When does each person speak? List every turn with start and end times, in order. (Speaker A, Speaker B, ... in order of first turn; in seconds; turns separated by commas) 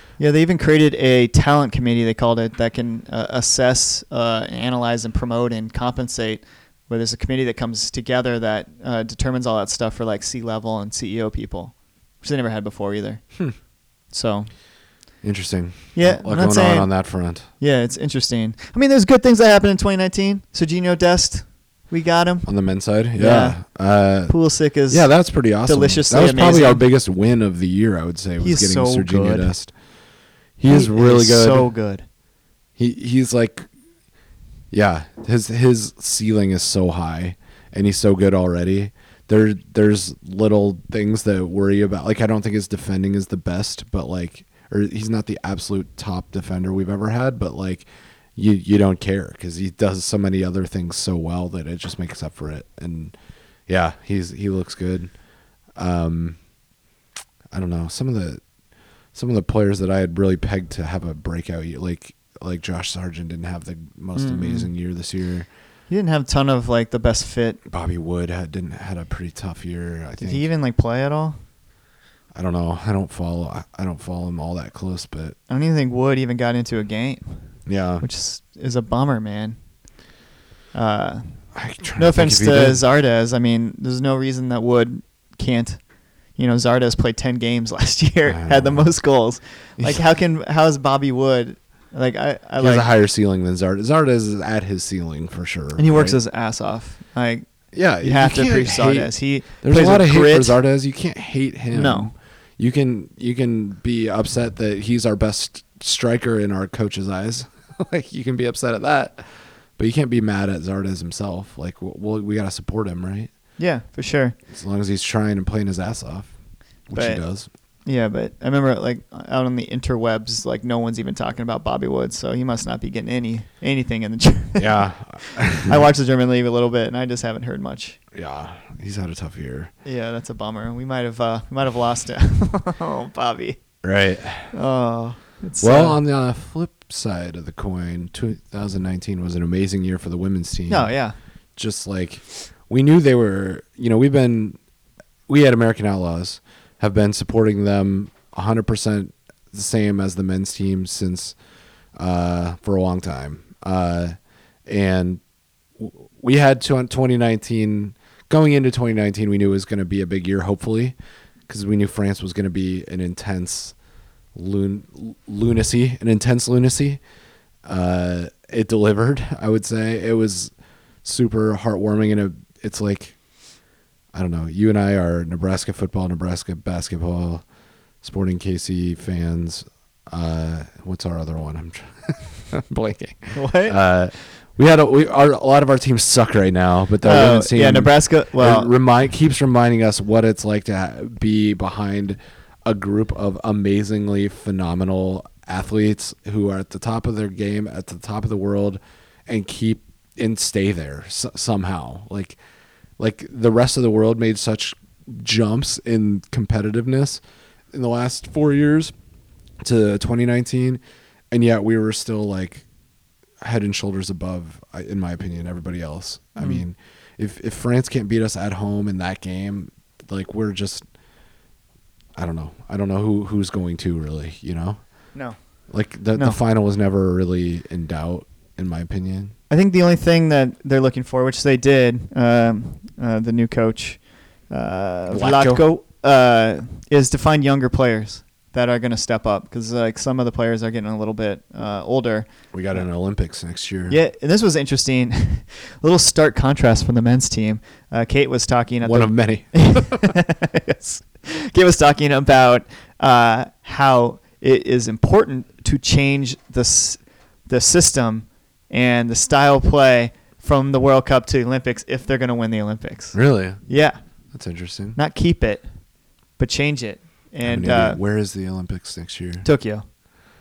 Speaker A: 0.2-13.2, Speaker A: 14.1-14.5, Speaker B: 15.2-17.5, Speaker A: 15.9-16.9, Speaker A: 17.6-22.5, Speaker B: 22.5-24.4, Speaker A: 23.2-23.6, Speaker A: 24.3-25.1, Speaker B: 24.9-29.7, Speaker A: 25.7-26.8, Speaker A: 28.4-29.5, Speaker B: 30.6-31.7, Speaker A: 30.7-32.0, Speaker B: 32.8-33.7, Speaker B: 34.7-53.1, Speaker B: 53.7-55.1, Speaker B: 55.8-56.4, Speaker B: 57.5-58.4, Speaker B: 59.1-65.5, Speaker A: 64.2-64.7, Speaker A: 65.9-67.6, Speaker B: 67.7-70.5, Speaker A: 70.2-71.4, Speaker B: 72.3-75.4, Speaker A: 75.5-77.4, Speaker B: 77.7-78.1, Speaker A: 78.0-79.6, Speaker A: 80.7-81.4, Speaker B: 81.5-82.8, Speaker A: 82.0-85.8, Speaker A: 86.4-92.9, Speaker B: 88.3-88.9, Speaker B: 89.8-90.0, Speaker B: 92.6-96.2, Speaker A: 95.8-97.5, Speaker B: 97.7-113.3, Speaker A: 98.0-100.6, Speaker A: 101.7-102.1, Speaker A: 113.6-114.4, Speaker B: 114.5-116.3, Speaker B: 116.9-117.5, Speaker A: 116.9-117.2, Speaker A: 117.9-124.9, Speaker B: 124.6-125.9, Speaker A: 125.7-128.0, Speaker B: 128.1-129.7, Speaker A: 129.8-133.6, Speaker B: 133.8-134.5, Speaker A: 134.5-136.0, Speaker B: 135.6-140.9, Speaker A: 140.7-141.2, Speaker B: 141.6-144.6, Speaker B: 145.3-151.3, Speaker B: 152.0-155.2, Speaker B: 155.8-160.9, Speaker B: 161.5-163.8, Speaker B: 164.3-167.0, Speaker B: 167.7-170.5, Speaker B: 171.0-173.2, Speaker B: 174.1-177.4, Speaker B: 178.0-202.4, Speaker A: 183.3-183.8, Speaker A: 187.0-188.7, Speaker B: 203.0-208.9, Speaker B: 209.6-212.7, Speaker B: 213.4-220.9, Speaker A: 216.4-216.6, Speaker B: 222.2-224.8, Speaker B: 225.7-229.3, Speaker A: 229.5-242.3, Speaker B: 235.1-235.7, Speaker B: 242.5-244.0, Speaker A: 243.9-264.0, Speaker B: 248.8-250.1, Speaker B: 263.1-263.6, Speaker B: 264.3-265.0, Speaker A: 265.0-265.6, Speaker A: 266.4-268.0, Speaker B: 267.4-269.5, Speaker A: 269.4-269.9